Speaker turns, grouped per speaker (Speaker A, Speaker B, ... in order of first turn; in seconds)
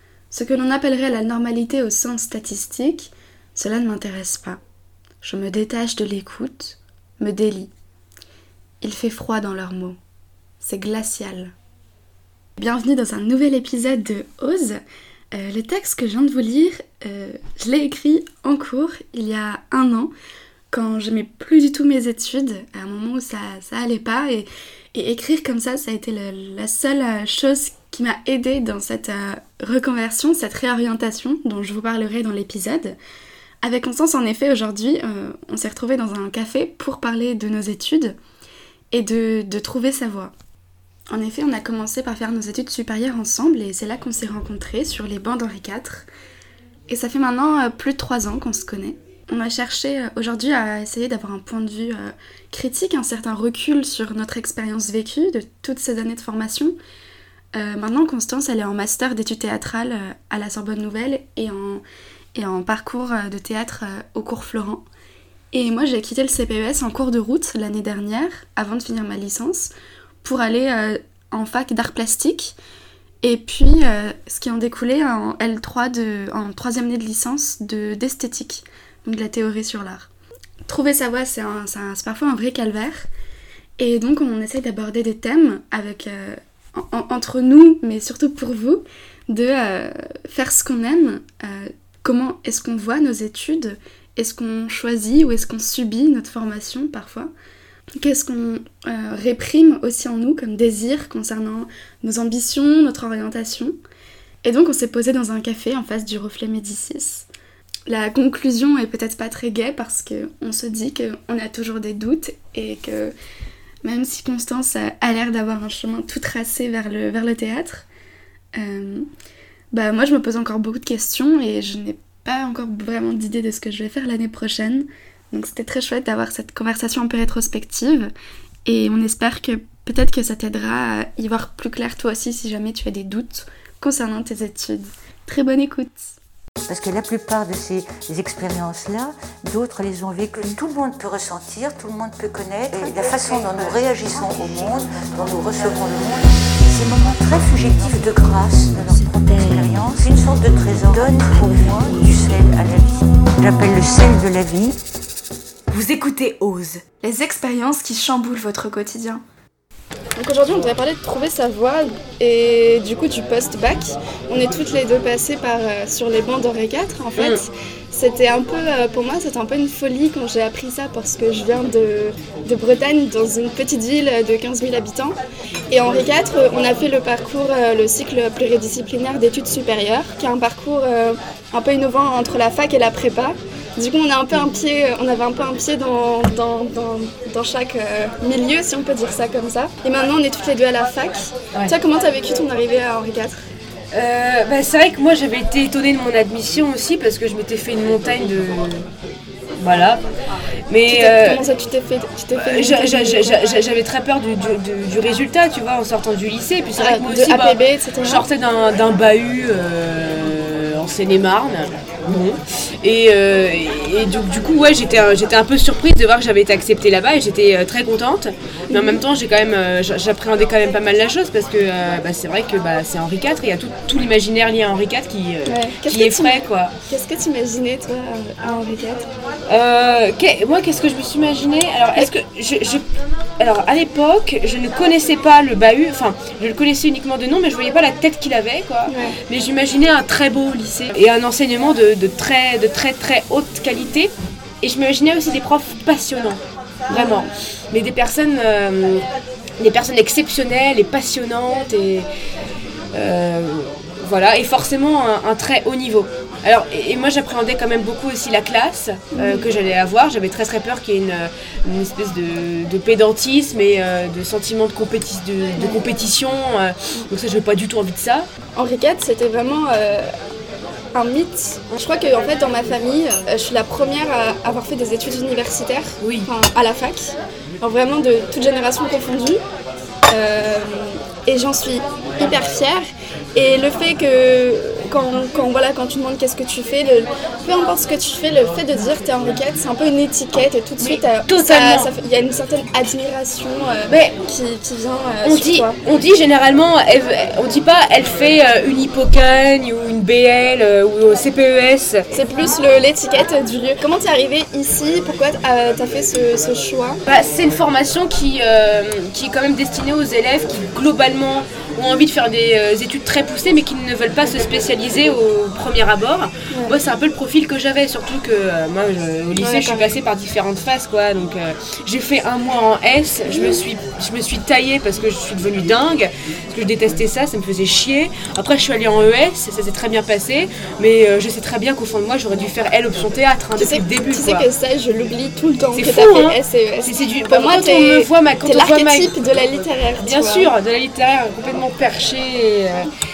Speaker A: 0.3-4.6, 5.2-7.7, 8.8-10.0, 10.6-11.5, 12.6-14.8, 15.3-20.1, 20.7-33.0, 33.6-38.1, 38.9-40.3, 41.1-46.1, 46.9-56.8, 57.5-61.8, 62.4-64.8, 65.5-69.7, 70.2-72.5, 73.2-80.1, 80.7-83.1, 83.8-97.3, 98.0-103.7, 104.4-107.2, 107.9-113.1, 113.8-117.8, 118.5-119.1, 119.7-128.1, 128.7-136.2, 143.1-143.4, 156.9-159.2, 160.2-175.1, 175.7-193.4, 200.9-203.4, 206.8-208.2, 218.7-219.0, 225.4-229.1, 238.9-239.2, 246.9-247.3, 259.1-259.5, 268.6-270.1, 270.9-279.4, 280.1-295.8, 302.1-307.0, 319.4-320.0, 323.3-323.6, 333.6-340.5
Speaker B: 136.7-154.8
Speaker C: 155.7-156.8, 193.9-198.9, 199.6-200.0, 200.7-201.4, 202.4-226.7, 229.5-232.8, 233.4-244.1, 244.6-246.4, 246.9-249.0, 249.6-252.1, 252.9-268.3, 276.0-276.3, 290.8-291.9, 293.9-294.1, 295.2-302.0, 307.1-334.4, 335.7-339.1, 340.0-342.9